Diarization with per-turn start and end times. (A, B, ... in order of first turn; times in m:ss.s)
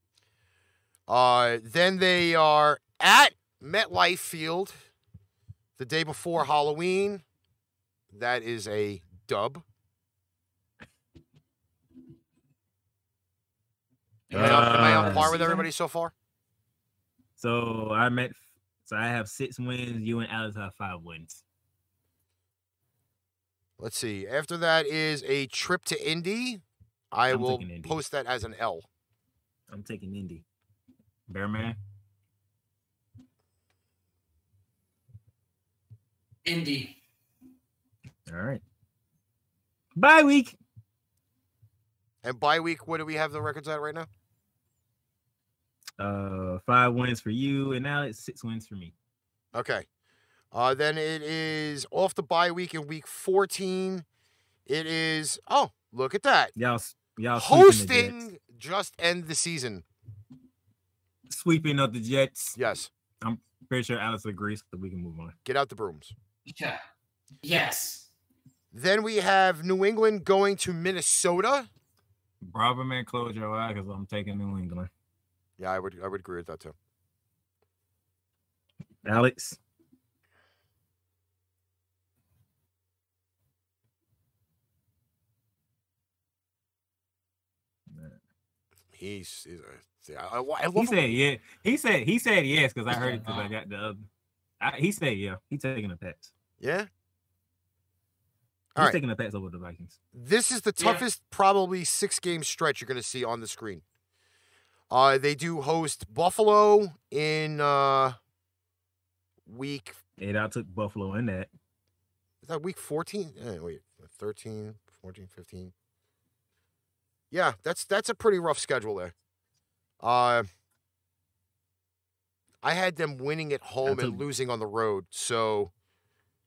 0:01.1-0:04.7 A
0:05.8-0:07.2 A
0:08.1-0:09.6 A
0:14.3-0:15.6 B
0:14.3-0:15.6 C
0:14.3-0:16.1 A
0:17.4-0:21.4 C
0:23.8-0:28.9 A
0:27.3-0:28.0 C
0:29.7-0:30.4 C
0:31.3-0:31.8 C
0:36.4-0:37.0 B
0:38.3-0:38.6 C
0:40.0-0:40.6 C
0:42.2-0:44.1 A
0:46.0-0:48.9 C
0:49.5-0:49.8 A
0:50.5-0:54.0 A
0:54.7-0:56.5 A
0:56.6-0:58.2 C
0:57.3-0:59.8 A
1:01.3-1:02.6 C
1:02.6-1:02.9 A
1:03.2-1:05.3 C
1:05.4-1:06.1 A
1:06.5-1:06.8 B
1:07.4-1:08.1 B
1:08.7-1:11.7 A
1:12.4-1:14.9 C
1:15.6-1:16.7 A
1:19.0-1:19.6 C
1:27.9-1:28.2 C
1:28.9-1:31.1 A
1:30.8-1:34.0 C
1:32.9-1:33.5 B
1:34.6-1:36.3 C
1:36.6-1:36.9 A
1:38.8-1:40.0 C
1:40.1-1:43.8 A
1:40.8-1:41.0 B
1:44.9-1:48.2 A
1:49.4-1:50.0 A
1:50.2-1:51.5 C
1:52.4-1:55.7 A
1:57.3-1:59.1 A
2:00.0-2:00.5 A
2:02.6-2:05.7 A
2:03.8-2:04.2 C